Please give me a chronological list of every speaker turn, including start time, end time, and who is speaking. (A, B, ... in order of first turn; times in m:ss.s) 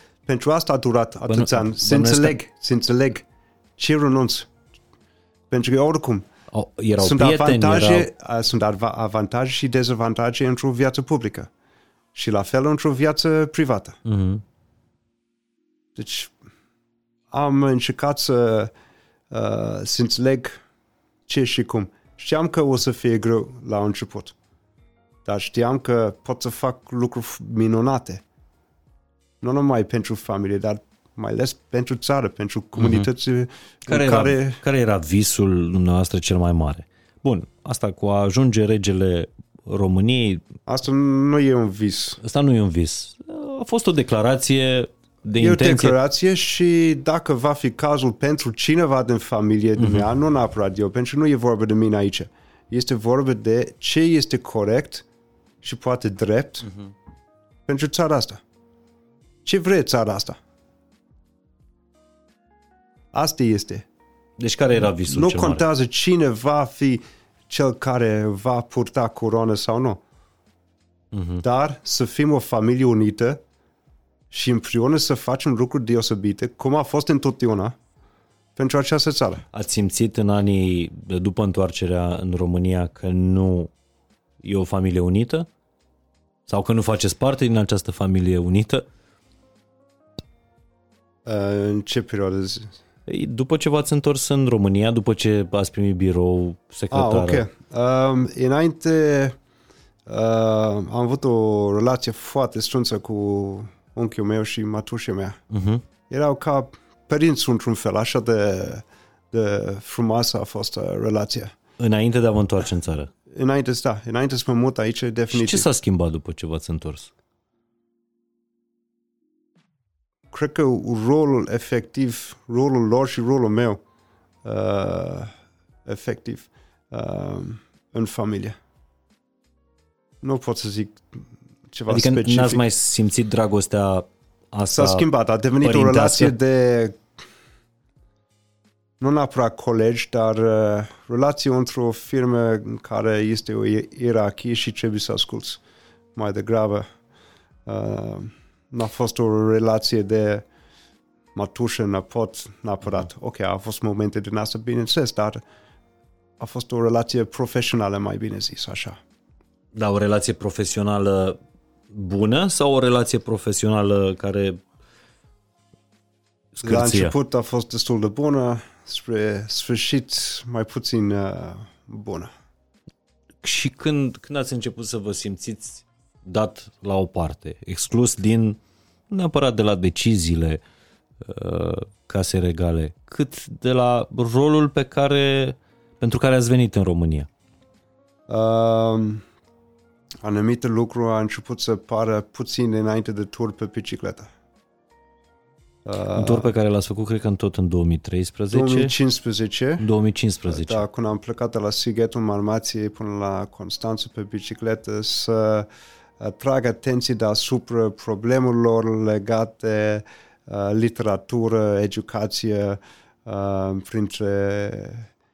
0:00.2-0:03.2 A
0:01.3-0:02.4 B
0:03.8-0:04.5 A
0:05.5-0:06.3 A
0:06.5-0:08.1 B
0:07.0-0:11.5 A
0:12.1-0:14.0 A
0:14.0-0:14.4 B
0:15.9-0:16.3 A
0:17.3-0:18.7 A
0:19.3-0:20.6 A
0:21.3-0:24.3 A
0:25.2-0:28.2 A
0:29.4-0:34.6 A
0:32.8-0:33.1 B
0:33.9-0:40.4 B
0:40.7-0:42.2 A
0:42.2-0:46.0 B
0:45.4-0:55.0 A
0:49.8-0:50.0 B
0:55.6-0:56.7 A
0:57.7-0:58.4 A
0:59.4-1:00.4 A
1:03.1-1:03.8 A
1:04.4-1:05.6 B
1:05.1-1:10.0 A
1:11.1-1:11.4 B
1:11.4-1:13.4 A
1:14.3-1:17.8 A
1:18.6-1:19.4 A
1:19.5-1:23.7 B
1:24.4-1:25.5 B
1:26.5-1:28.8 B
1:31.2-1:32.7 A
1:33.1-1:37.4 B
1:36.9-1:39.4 A
1:40.1-1:45.4 A
1:45.5-1:45.8 B
1:46.1-1:51.5 A
1:51.8-1:53.1 B
1:53.3-1:55.6 A
1:55.3-1:57.1 B
2:00.3-2:03.8 A
2:04.4-2:05.3 A
2:05.8-2:08.6 A
2:10.2-2:12.6 A
2:11.9-2:15.0 B
2:14.7-2:17.0 A
2:15.6-2:16.3 B
2:19.0-2:25.6 A
2:26.1-2:26.8 A
2:27.6-2:30.4 A
2:31.3-2:35.4 A
2:36.4-2:39.0 A
2:39.7-2:41.4 B
2:41.9-2:44.6 B
2:46.5-2:47.1 B
2:46.6-2:52.3 A
2:53.4-3:00.6 B
3:01.2-3:07.3 B
3:08.3-3:09.2 A
3:10.2-3:14.3 A
3:15.8-3:16.5 A
3:16.1-3:18.9 B
3:18.5-3:19.8 A
3:19.8-3:20.8 B
3:20.5-3:25.7 A
3:26.2-3:35.1 A